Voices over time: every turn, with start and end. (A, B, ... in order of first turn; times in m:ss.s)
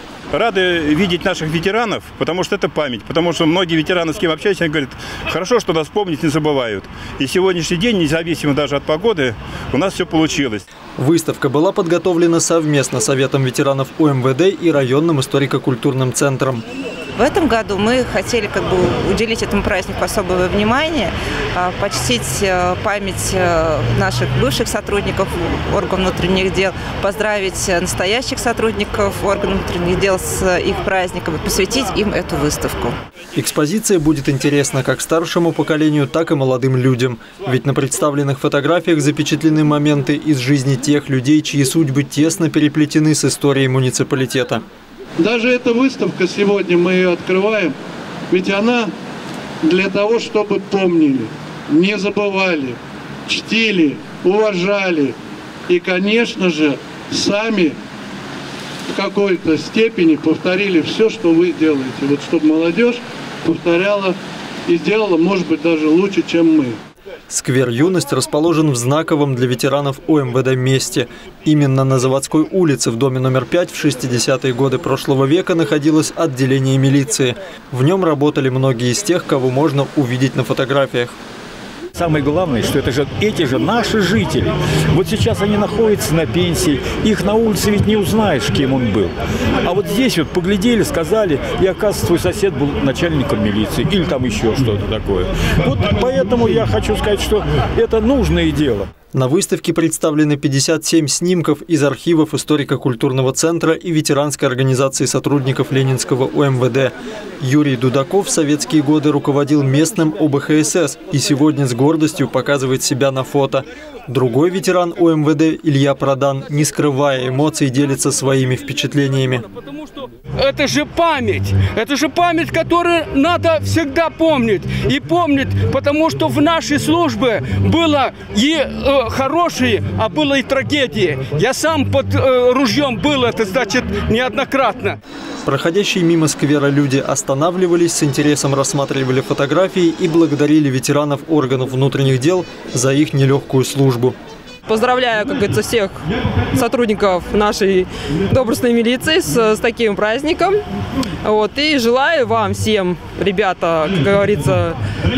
0:00.3-0:10.6 A
0:11.0-0:16.6 B
0:17.1-0:33.0 C
0:33.3-0:44.6 B
0:45.2-0:47.8 D
0:48.3-0:48.9 D
0:49.6-0:55.2 D
0:55.7-0:57.8 D
0:58.9-1:04.2 D
1:04.7-1:06.8 D
1:07.3-1:21.1 B
1:22.0-1:38.9 E
1:39.1-1:59.4 B
2:00.0-2:15.0 F
2:15.4-2:24.2 B
2:24.7-2:26.0 G
2:26.5-2:30.6 G
2:31.2-2:34.8 G